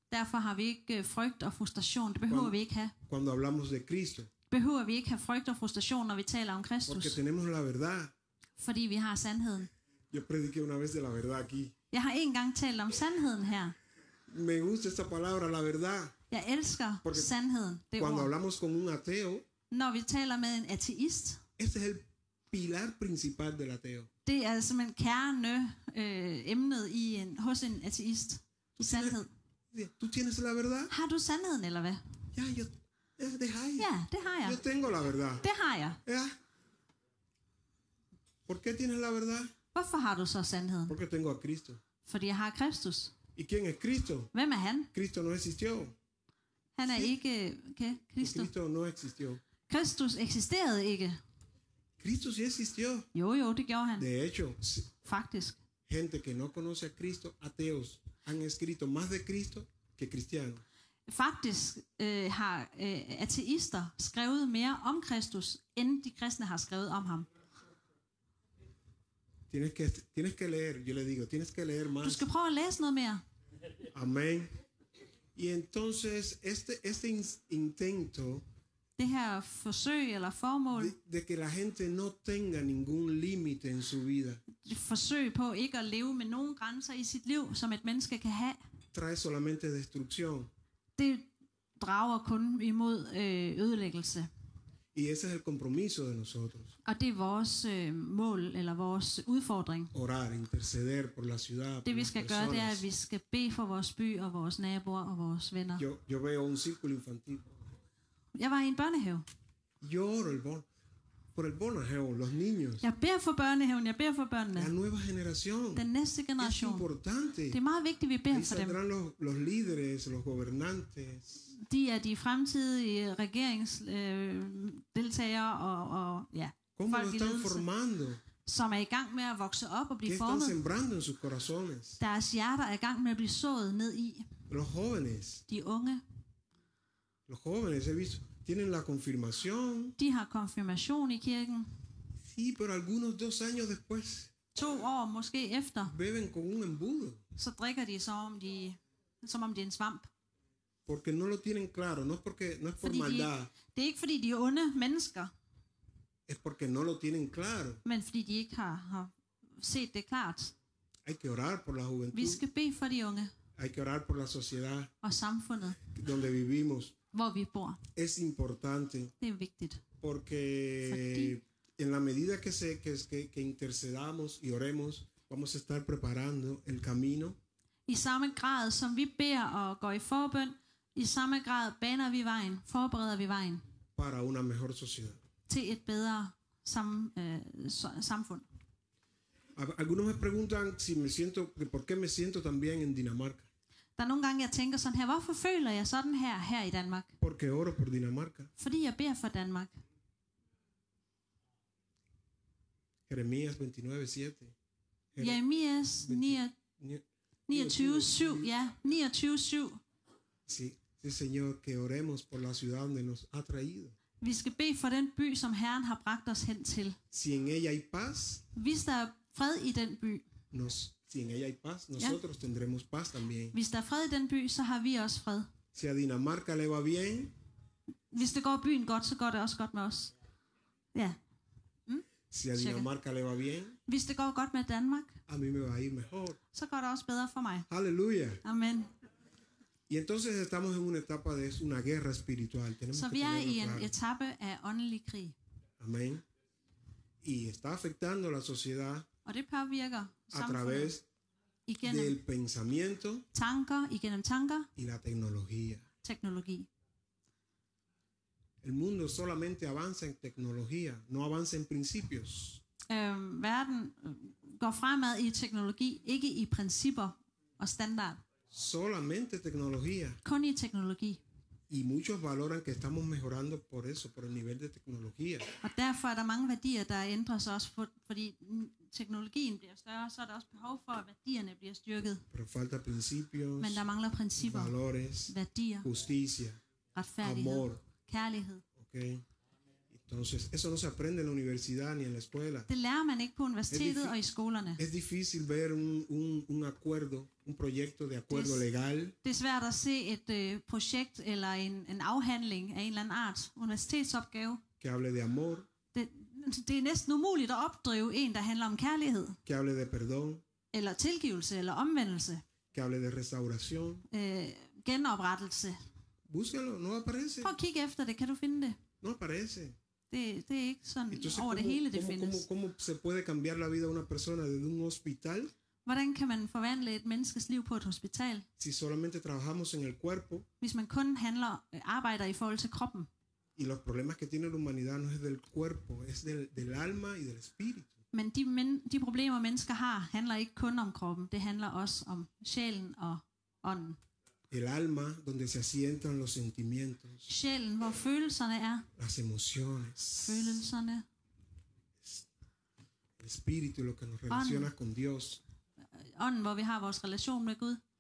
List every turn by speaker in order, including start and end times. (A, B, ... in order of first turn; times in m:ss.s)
0:00.1-0:03.0 A
0:02.3-0:02.6 B
0:03.1-0:04.3 B
0:04.5-0:07.2 A
0:06.9-0:08.1 B
0:08.6-0:09.7 A
0:10.1-0:11.7 B
0:11.9-0:13.8 A
0:14.3-0:16.2 B
0:16.3-0:18.3 A
0:17.0-0:17.3 B
0:18.0-0:19.4 B
0:19.7-0:21.4 A
0:21.6-0:24.1 B
0:24.2-0:29.3 A
0:28.8-0:29.2 B
0:29.7-0:30.9 B
0:30.9-0:32.0 A
0:32.3-0:33.9 B
0:33.8-0:34.6 A
0:34.4-0:35.4 B
0:35.4-0:36.0 A
0:36.0-0:36.4 B
0:38.5-0:39.5 B
0:39.8-0:41.0 A
0:40.9-0:41.8 B
0:42.0-0:43.1 A
0:43.4-0:44.3 B
0:44.3-0:44.9 A
0:44.9-0:46.0 B
0:46.8-0:48.5 A
0:46.8-0:47.1 B
0:48.2-0:49.4 B
0:49.7-0:51.2 A
0:52.0-0:53.1 B
0:53.1-0:54.1 A
0:54.0-0:54.9 B
0:55.0-0:55.6 A
0:55.9-1:00.6 B
1:01.1-1:07.3 A
1:09.5-1:12.2 B
1:12.0-1:13.2 A
1:13.9-1:14.5 B
1:15.4-1:18.4 B
1:19.0-1:21.0 A
1:20.7-1:24.4 B
1:24.6-1:28.6 A
1:28.9-1:30.5 B
1:31.0-1:34.3 A
1:34.9-1:36.8 B
1:36.8-1:39.9 A
1:39.9-1:42.8 B
1:41.8-1:45.8 A
1:45.8-1:47.6 B
1:48.4-1:49.2 A
1:49.8-1:50.7 B
1:51.4-1:52.8 B
1:52.8-1:54.7 A
1:54.6-1:55.9 B
1:55.7-1:56.9 A
1:56.4-1:57.6 B
1:57.5-1:58.8 A
1:58.3-2:01.5 B
2:01.6-2:07.7 A
2:06.8-2:08.2 B
2:08.4-2:10.6 A
2:10.0-2:12.0 B
2:12.0-2:14.3 A
2:14.5-2:15.4 B
2:15.5-2:16.0 A
2:17.3-2:20.0 B
2:20.0-2:21.7 A
2:22.2-2:24.3 B
2:24.6-2:25.9 A
2:25.8-2:27.2 B
2:27.4-2:30.1 A
2:30.9-2:33.5 B
2:32.8-2:35.3 A
2:36.3-2:37.8 B
2:37.8-2:40.6 A
2:41.0-2:42.4 B
2:42.1-2:43.3 A
2:43.6-2:44.9 B
2:45.0-2:45.8 A
2:45.8-2:47.0 B
2:47.1-2:47.8 A
2:48.0-2:49.1 B
2:49.2-2:49.8 A
2:50.0-2:57.4 B
2:50.8-2:51.4 A
2:57.9-3:03.6 A
3:04.0-3:05.2 B
3:05.5-3:08.4 A
3:09.6-3:13.5 B
3:14.0-3:17.1 A
3:17.2-3:18.5 B
3:18.6-3:19.8 A
3:23.1-3:24.6 B
3:25.1-3:25.4 B
3:25.2-3:26.6 A
3:26.0-3:28.5 B
3:27.5-3:29.8 A
3:30.5-3:34.0 B
3:34.2-3:37.0 A
3:37.1-3:38.4 B
3:38.5-3:40.2 A
3:40.5-3:43.6 B
3:43.5-3:45.5 A
3:45.7-3:47.4 B
3:48.1-3:50.1 A
3:50.9-3:51.2 A
3:51.9-3:52.9 A
3:52.3-3:53.8 B
3:53.9-3:55.2 A
3:55.3-3:56.4 B
3:56.5-3:57.7 A
3:57.7-3:58.4 B
3:58.4-3:58.9 A
3:59.9-4:03.9 B
4:02.9-4:05.4 A
4:05.8-4:06.2 B
4:07.2-4:09.1 B
4:09.2-4:11.0 A
4:10.3-4:11.1 B
4:11.7-4:12.2 A
4:11.8-4:13.3 B
4:13.3-4:14.7 A
4:14.8-4:15.9 B
4:16.0-4:16.7 A
4:18.6-4:22.6 B
4:22.9-4:28.2 A
4:28.5-4:30.2 B
4:30.2-4:31.2 A
4:31.7-4:35.5 B
4:35.6-4:42.2 A
4:42.3-4:43.8 B
4:43.6-4:45.9 A
4:44.4-4:46.6 B
4:47.0-4:48.6 A
4:47.2-4:47.8 B
4:48.8-4:49.2 B
4:49.9-4:52.7 B
4:52.7-4:54.8 A
4:53.7-4:54.2 B
4:54.8-4:59.2 B
4:58.3-4:58.6 A
4:59.2-5:04.6 A
5:04.8-5:05.7 B
5:05.9-5:09.4 A
5:09.5-5:10.4 B
5:10.7-5:12.4 A
5:12.7-5:14.1 B
5:14.1-5:15.8 A
5:16.3-5:17.6 B
5:17.4-5:18.8 A
5:19.0-5:19.8 B
5:20.1-5:22.5 A
5:21.1-5:25.5 B
5:25.8-5:28.5 A
5:28.6-5:30.5 B
5:30.6-5:33.1 A
5:33.6-5:37.9 B
5:38.1-5:44.0 A
5:44.5-5:47.3 B
5:47.3-5:48.9 A
5:49.0-5:50.6 B
5:50.2-5:51.1 A
5:53.2-5:55.4 B
5:54.3-5:54.7 A
5:56.0-5:57.8 A